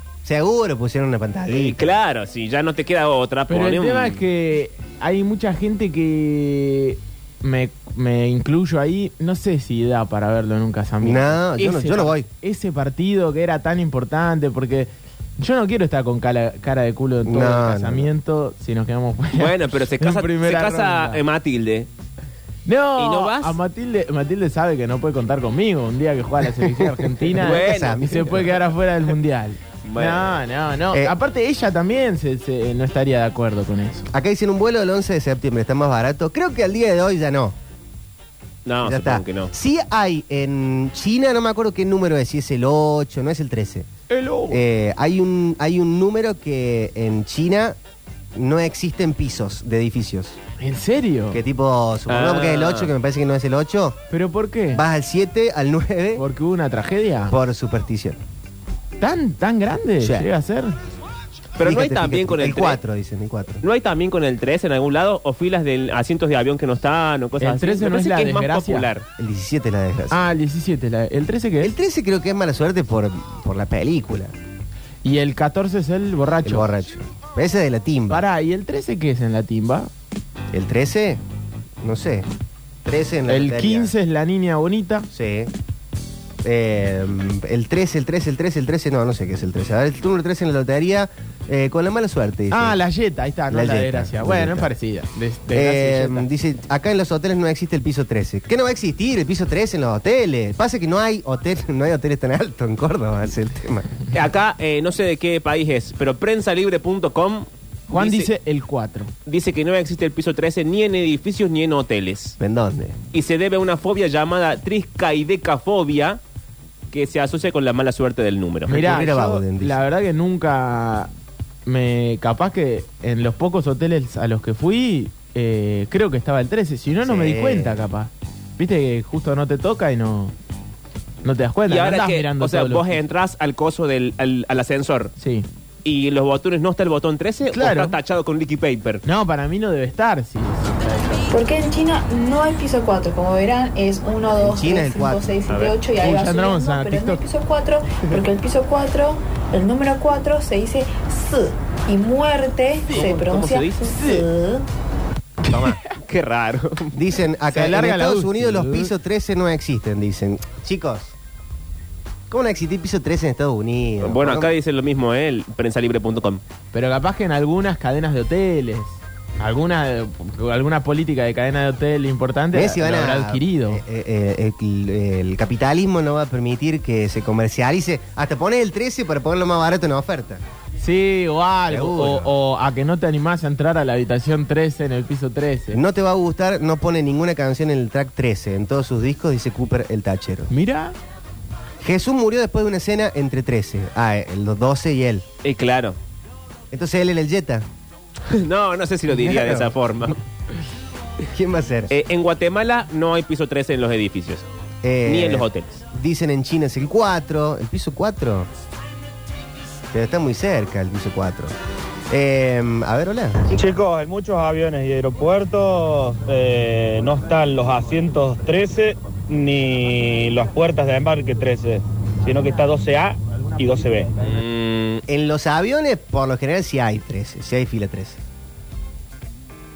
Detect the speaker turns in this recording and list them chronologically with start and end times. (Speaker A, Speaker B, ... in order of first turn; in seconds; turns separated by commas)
Speaker A: 0.2-1.8, Speaker B: 1.5-4.2, Speaker C: 3.5-21.2, Speaker A: 11.0-12.3, Speaker A: 17.2-18.1, Speaker B: 19.4-21.9, Speaker C: 22.6-34.0, Speaker B: 23.0-23.6, Speaker B: 27.4-28.4, Speaker A: 27.4-28.4, Speaker B: 29.8-30.4, Speaker A: 34.1-37.5, Speaker B: 38.6-39.5, Speaker A: 38.8-43.9, Speaker C: 44.1-44.6, Speaker A: 44.5-47.8, Speaker A: 48.4-50.4, Speaker C: 50.6-51.4, Speaker A: 51.3-54.0, Speaker B: 52.1-52.9, Speaker C: 54.1-54.8, Speaker A: 54.7-56.2, Speaker C: 56.1-57.4, Speaker A: 57.3-58.2, Speaker C: 59.0-60.8, Speaker A: 60.0-60.3, Speaker B: 61.6-62.8, Speaker A: 61.6-63.6, Speaker B: 63.6-69.0, Speaker C: 67.4-68.9, Speaker A: 69.2-70.3, Speaker C: 70.1-71.7, Speaker A: 71.6-74.3, Speaker C: 75.0-76.7, Speaker A: 76.4-78.2, Speaker C: 78.1-79.9, Speaker A: 80.5-81.2, Speaker A: 81.8-82.2, Speaker A: 82.8-83.9, Speaker C: 83.3-85.0, Speaker A: 85.1-85.5, Speaker A: 86.4-92.8, Speaker C: 92.5-96.3, Speaker A: 93.5-94.7, Speaker A: 95.5-103.9, Speaker B: 104.1-108.3, Speaker C: 107.9-109.1, Speaker B: 109.2-112.4, Speaker A: 112.4-113.0, Speaker B: 113.1-116.2, Speaker B: 116.9-119.0, Speaker C: 118.7-121.1, Speaker A: 118.7-119.8, Speaker C: 121.7-130.3, Speaker A: 127.0-127.8, Speaker C: 131.2-133.0, Speaker B: 131.7-135.1, Speaker C: 135.2-135.4, Speaker B: 135.8-139.0, Speaker C: 137.4-138.0, Speaker C: 139.0-141.3, Speaker D: 141.3-154.6, Speaker A: 144.3-145.3, Speaker B: 145.5-145.8, Speaker C: 145.9-147.2, Speaker B: 152.9-153.9, Speaker C: 153.8-154.3, Speaker A: 155.5-155.8, Speaker B: 156.0-157.0, Speaker A: 156.9-161.1, Speaker C: 157.5-158.9, Speaker A: 162.3-164.5, Speaker B: 164.0-166.4, Speaker C: 166.7-173.8, Speaker A: 172.5-180.4, Speaker C: 180.8-185.8, Speaker A: 181.7-182.3, Speaker A: 185.7-190.5, Speaker C: 190.5-190.9, Speaker A: 191.8-195.2, Speaker B: 195.4-196.0, Speaker A: 196.7-197.6, Speaker B: 198.4-200.2, Speaker A: 199.1-200.1, Speaker A: 201.3-201.9, Speaker B: 201.9-204.4, Speaker A: 204.8-208.5, Speaker B: 205.1-205.8, Speaker A: 209.9-211.5, Speaker A: 212.1-213.4, Speaker E: 213.5-224.1, Speaker B: 224.2-225.0, Speaker A: 225.1-228.2